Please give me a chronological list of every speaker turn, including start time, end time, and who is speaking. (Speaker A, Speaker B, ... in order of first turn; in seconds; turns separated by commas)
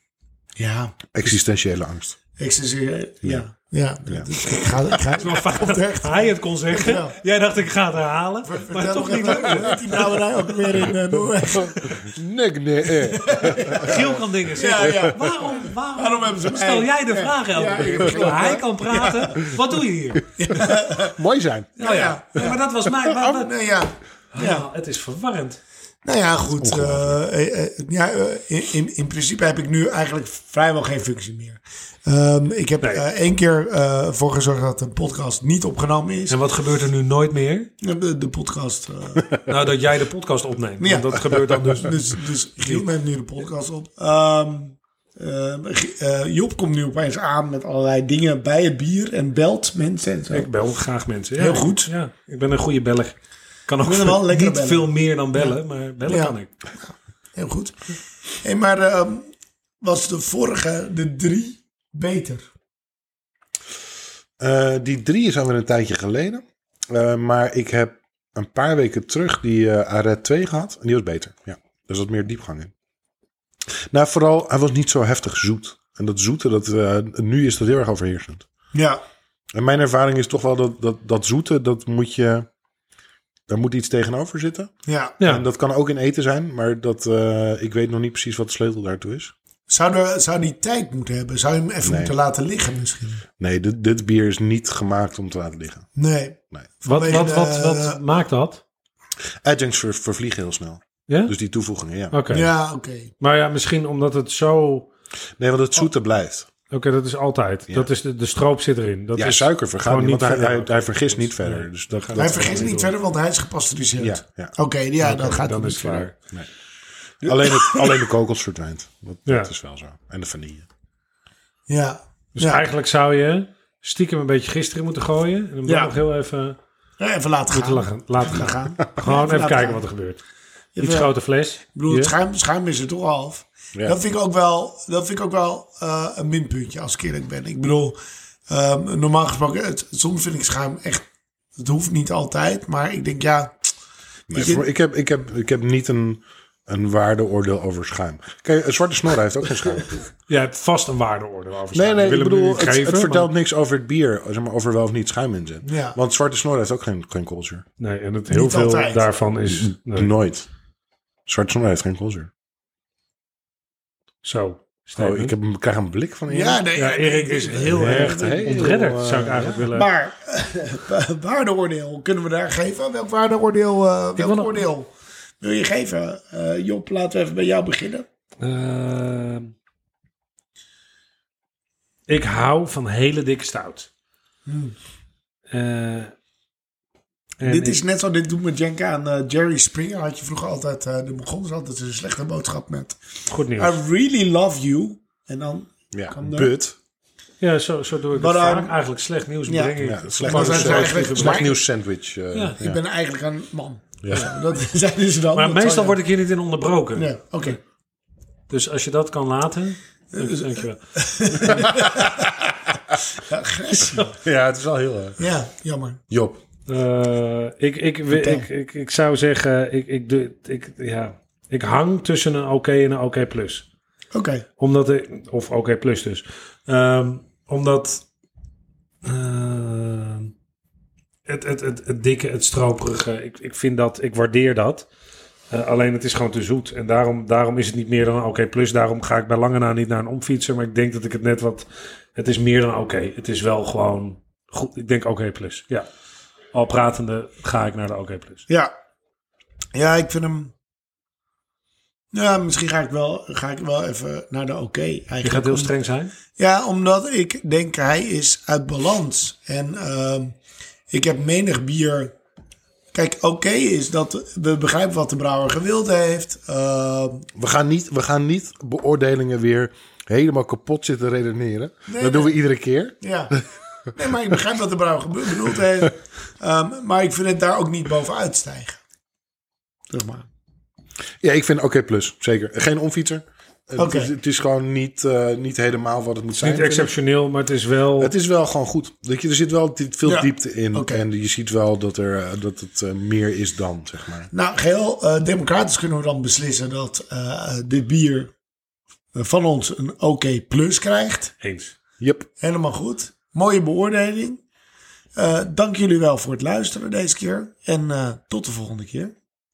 Speaker A: 0.6-1.2, Speaker B: 1.1-2.2, Speaker A: 2.4-7.2, Speaker B: 4.1-5.0, Speaker C: 5.2-10.2, Speaker A: 8.5-12.1, Speaker B: 11.5-14.2, Speaker A: 13.0-19.4, Speaker C: 13.7-20.3, Speaker B: 17.7-18.6, Speaker A: 20.4-21.2, Speaker B: 20.5-23.3, Speaker C: 21.8-23.5, Speaker A: 21.8-22.6, Speaker A: 23.2-24.7, Speaker C: 24.3-25.6, Speaker A: 26.0-36.4, Speaker B: 26.6-27.2, Speaker C: 36.3-37.7, Speaker A: 37.8-39.3, Speaker C: 39.5-42.1, Speaker A: 40.8-50.5, Speaker C: 50.3-56.5, Speaker A: 51.4-51.9, Speaker A: 53.8-59.3, Speaker A: 59.8-62.5, Speaker B: 64.4-72.7, Speaker B: 73.9-78.5, Speaker A: 78.7-79.0, Speaker B: 79.5-82.5, Speaker B: 83.5-89.3, Speaker A: 84.9-85.2, Speaker A: 89.7-93.2, Speaker B: 91.8-92.1, Speaker B: 93.4-95.9, Speaker A: 96.0-98.0, Speaker C: 96.8-98.6, Speaker B: 99.4-102.2, Speaker C: 101.1-101.3, Speaker C: 102.1-102.5, Speaker A: 102.3-103.1, Speaker C: 103.2-104.9, Speaker B: 105.4-106.5, Speaker C: 106.7-112.9, Speaker B: 109.2-112.8, Speaker A: 112.2-116.1, Speaker B: 114.0-114.5, Speaker C: 115.0-116.2, Speaker B: 117.2-120.7, Speaker A: 117.2-118.1, Speaker A: 121.7-122.6, Speaker C: 122.4-126.6, Speaker A: 125.7-126.0, Speaker A: 127.0-129.8, Speaker C: 127.5-130.2, Speaker A: 130.8-131.1, Speaker C: 130.8-132.1, Speaker A: 131.7-138.0, Speaker A: 138.5-141.1, Speaker A: 141.6-143.5, Speaker B: 144.3-150.1, Speaker A: 144.3-144.7, Speaker C: 150.3-153.3, Speaker B: 151.7-157.6, Speaker A: 155.6-156.0, Speaker C: 157.8-160.1, Speaker A: 158.3-159.1, Speaker B: 159.5-160.5, Speaker B: 161.3-162.3, Speaker C: 164.2-165.3, Speaker B: 165.0-166.6, Speaker A: 166.3-168.7, Speaker C: 166.8-169.9, Speaker B: 167.7-169.6, Speaker A: 169.6-174.9, Speaker C: 174.2-174.7, Speaker A: 175.4-178.1, Speaker C: 178.4-179.5, Speaker C: 182.1-183.9, Speaker A: 184.5-184.8, Speaker C: 185.5-186.1, Speaker C: 187.4-187.8, Speaker A: 187.5-193.0, Speaker C: 193.3-193.8, Speaker A: 193.6-196.5, Speaker B: 195.9-196.8, Speaker C: 197.4-201.5, Speaker A: 198.2-198.8, Speaker A: 199.5-199.7, Speaker B: 199.8-202.8, Speaker A: 200.3-201.5, Speaker C: 202.3-202.6, Speaker A: 202.6-206.0, Speaker B: 204.0-204.3, Speaker C: 205.3-207.6, Speaker A: 207.0-207.6, Speaker C: 208.5-210.8, Speaker A: 210.1-212.4, Speaker B: 211.4-212.3, Speaker A: 213.2-214.2, Speaker B: 214.2-215.2, Speaker A: 215.2-216.0, Speaker B: 216.1-216.4, Speaker C: 216.7-223.7, Speaker A: 218.1-218.5, Speaker A: 224.1-224.4, Speaker C: 224.6-228.1, Speaker C: 229.0-230.3, Speaker C: 231.3-234.9, Speaker C: 235.5-245.9, Speaker C: 246.5-248.4, Speaker A: 249.7-250.5, Speaker A: 252.1-255.7, Speaker C: 255.2-256.1, Speaker A: 256.4-260.4, Speaker A: 260.9-262.1, Speaker A: 262.9-267.3, Speaker B: 267.4-273.4, Speaker A: 271.9-272.4, Speaker A: 273.0-273.4, Speaker A: 273.9-278.8, Speaker A: 279.9-280.3, Speaker B: 281.2-286.9, Speaker A: 283.8-284.1, Speaker C: 286.4-288.1, Speaker B: 288.0-294.3, Speaker A: 290.1-291.0, Speaker A: 294.3-298.3, Speaker A: 299.1-301.3, Speaker C: 301.4-301.8, Speaker B: 302.0-302.3, Speaker A: 302.4-304.4, Speaker A: 305.2-309.1